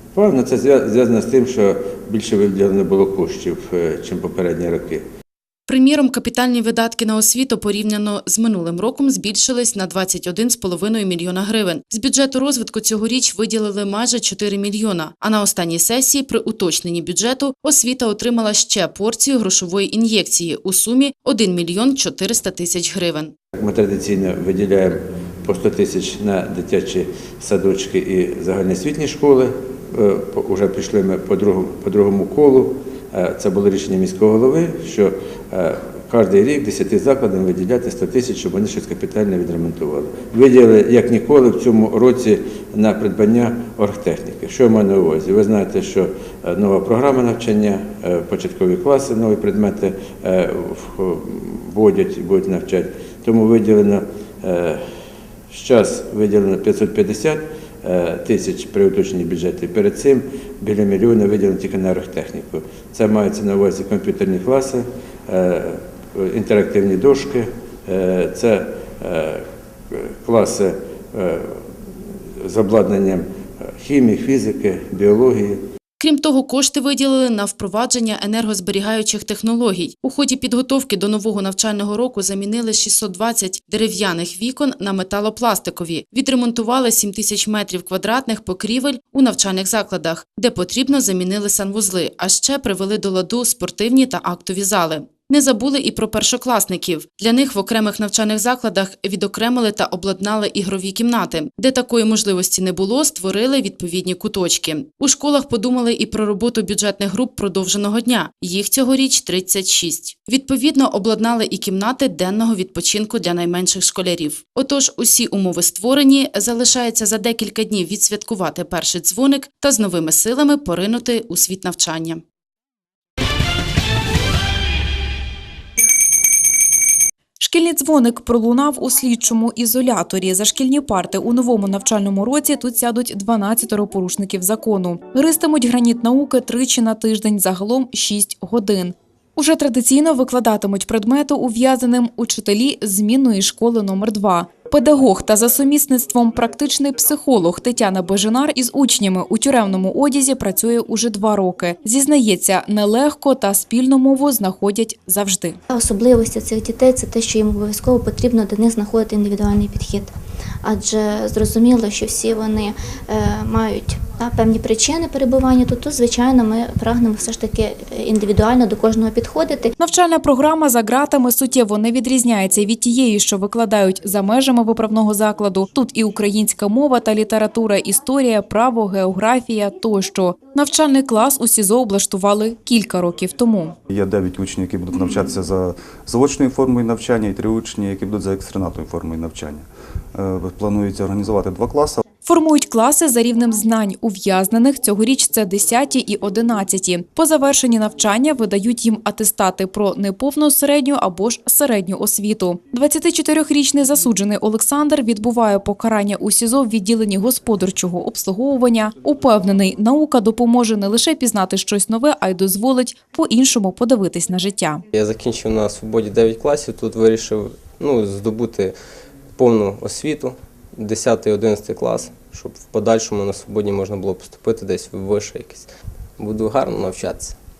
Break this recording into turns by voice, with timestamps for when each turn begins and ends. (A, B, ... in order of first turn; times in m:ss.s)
0:00.2-0:05.0 A
0:05.7-0:23.3 B
0:23.6-0:54.8 A
0:55.5-1:09.4 A
1:09.9-1:11.6 A
1:12.4-1:13.2 A
1:13.8-1:15.6 A
1:16.0-2:02.2 B
2:07.4-2:35.6 C
2:35.7-2:40.1 D
2:40.6-2:49.7 D
2:49.8-3:03.8 C
3:03.9-3:12.0 E
3:12.2-3:34.8 C
3:34.9-3:38.8 F
3:39.4-3:47.4 F